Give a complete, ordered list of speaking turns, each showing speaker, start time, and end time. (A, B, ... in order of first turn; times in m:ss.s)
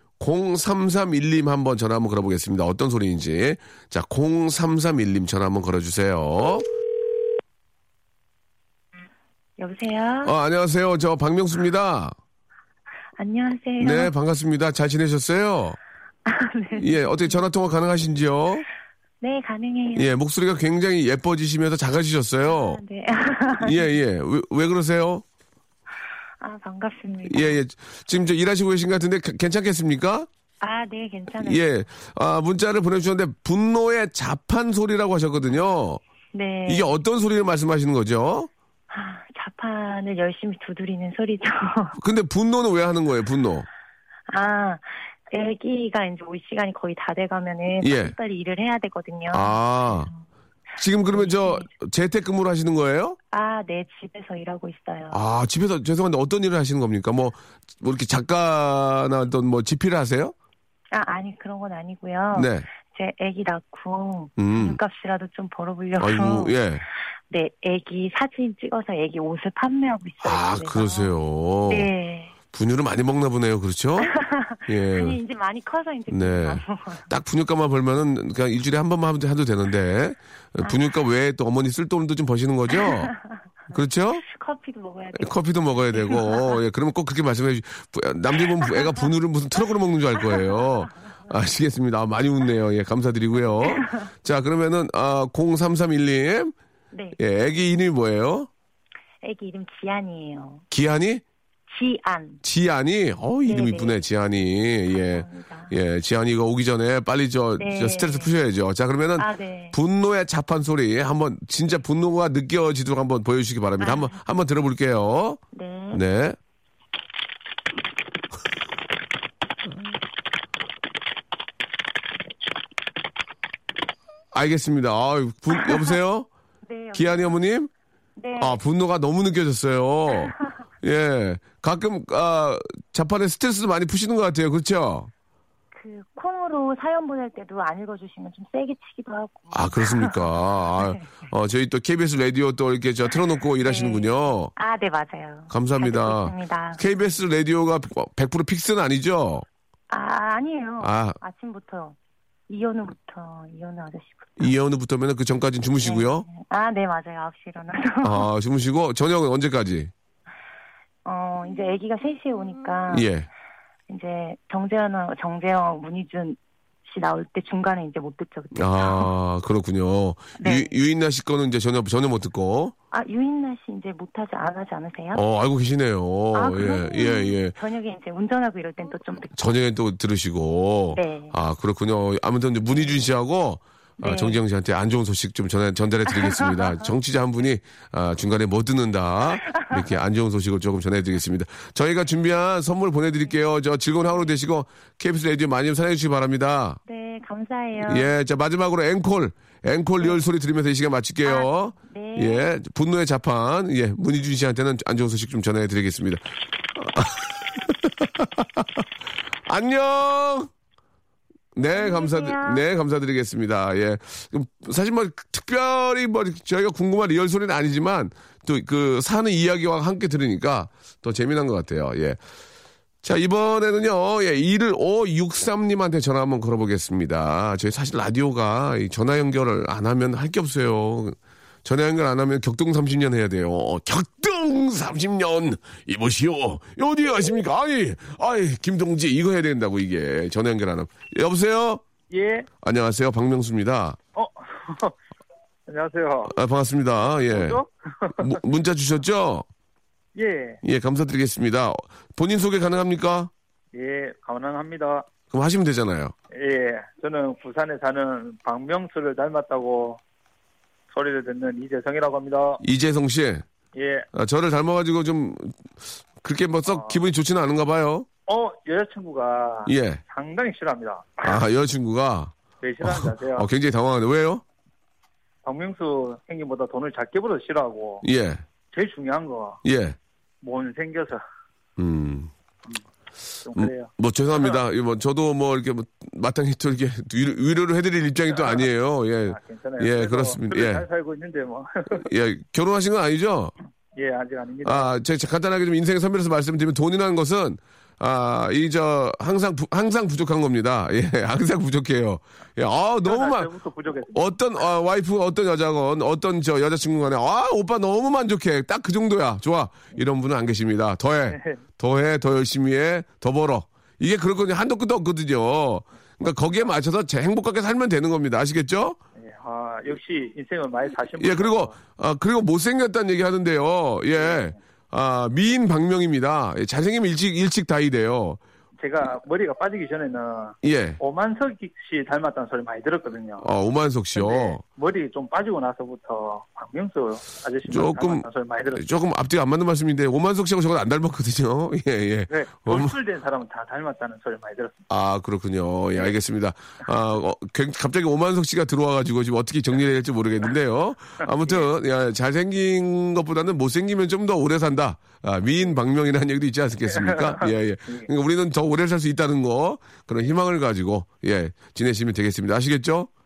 0:00.2-0:06.6 A
0:09.6-0:10.3 B
0:10.2-0:12.1 A
0:13.2-0:14.1 B
0:13.8-0:15.8 A
0:16.2-0:17.4 B
0:16.8-0:18.6 A
0:19.2-0:20.1 B
0:19.9-0:22.8 A
0:22.4-0:23.9 B
0:23.6-0:25.2 A
0:26.4-0:27.6 B
0:27.2-0:30.3 A
0:30.6-0:31.6 B
0:31.4-0:36.0 A
0:36.3-0:36.9 B
0:36.7-0:38.5 A
0:38.9-0:42.0 B
0:42.0-0:43.6 A
0:44.3-0:50.1 B
0:47.8-0:48.1 A
0:49.3-0:50.1 A
0:50.8-0:53.2 A
0:51.1-0:51.7 B
0:53.3-0:55.2 B
0:55.1-1:00.3 A
1:00.9-1:06.6 B
1:02.3-1:02.6 A
1:04.4-1:04.8 A
1:06.0-1:06.8 A
1:07.3-1:11.1 B
1:10.2-1:11.9 A
1:11.7-1:12.3 B
1:12.5-1:14.1 A
1:14.0-1:17.1 B
1:14.6-1:15.2 A
1:16.1-1:23.1 A
1:22.7-1:23.3 B
1:23.7-1:24.2 A
1:24.2-1:25.4 B
1:25.1-1:36.5 A
1:25.9-1:26.6 B
1:33.6-1:34.0 B
1:36.9-1:37.2 B
1:37.2-1:38.5 A
1:39.2-1:40.6 B
1:40.7-1:41.2 A
1:41.7-1:42.4 B
1:42.4-1:55.4 A
1:43.4-1:44.0 B
1:44.9-1:45.7 B
1:47.6-1:48.3 B
1:49.2-1:49.8 B
1:53.8-1:54.2 B
1:55.5-1:56.0 B
1:55.9-1:56.4 A
2:04.3-2:06.3 A
2:05.5-2:05.9 B
2:06.6-2:07.4 B
2:06.9-2:07.7 A
2:08.2-2:08.6 B
2:08.4-2:15.1 A
2:15.7-2:20.3 B
2:19.5-2:24.5 A
2:20.8-2:21.1 B
2:23.6-2:27.2 B
2:25.5-2:29.4 A
2:29.9-2:32.0 B
2:30.8-2:31.2 A
2:32.5-2:34.5 B
2:34.4-2:36.3 A
2:35.8-2:38.3 B
2:38.0-2:39.9 A
2:41.0-2:43.1 B
2:42.9-2:43.3 A
2:43.9-2:49.1 B
2:48.5-2:52.7 A
2:50.4-2:50.8 B
2:52.9-2:55.2 B
2:55.1-2:57.5 A
2:56.3-2:59.6 B
2:59.4-3:16.8 A
3:00.9-3:01.3 B
3:04.0-3:04.4 B
3:06.1-3:06.9 B
3:16.8-3:18.1 B
3:17.8-3:26.2 A
3:21.2-3:22.5 B
3:26.7-3:28.8 A
3:29.4-3:30.5 A
3:31.5-3:42.2 A
3:31.7-3:32.6 B
3:43.0-4:01.8 A
4:02.1-4:02.5 C
4:02.6-4:04.0 A
4:04.1-4:05.0 C
4:05.7-4:06.4 C
4:06.3-4:07.6 A
4:07.0-4:08.4 C
4:08.2-4:09.4 A
4:10.1-4:10.6 C
4:10.6-4:13.3 A
4:13.7-4:15.1 C
4:15.3-4:16.1 A
4:16.3-4:20.0 C
4:20.9-4:22.6 C
4:22.6-4:23.4 A
4:23.7-4:24.1 C
4:24.1-4:25.6 A
4:26.2-4:28.1 A
4:26.6-4:27.0 C
4:28.3-4:31.4 C
4:29.6-4:30.0 A
4:31.2-4:34.4 A
4:32.6-4:33.5 C
4:35.4-4:38.0 C
4:38.0-4:38.4 A
4:38.7-4:39.6 C
4:39.6-4:40.0 A
4:40.4-4:41.2 C
4:41.8-4:42.3 A
4:43.4-4:44.6 C
4:43.5-4:50.8 A
4:48.3-4:48.7 C
4:49.2-4:52.0 C
4:51.9-4:53.5 A
4:53.9-4:54.9 C
4:54.6-5:03.5 A
5:03.0-5:04.3 C
5:04.1-5:19.0 A
5:11.3-5:11.6 C
5:19.2-5:21.7 C
5:21.2-5:28.4 A
5:24.2-5:24.5 C
5:28.8-5:33.5 C
5:30.6-5:31.0 A
5:33.4-5:34.6 A
5:34.1-5:38.8 C
5:37.6-5:42.9 A
5:42.3-5:44.8 C
5:44.9-6:03.1 A
5:51.2-5:51.6 C
5:56.9-5:58.1 C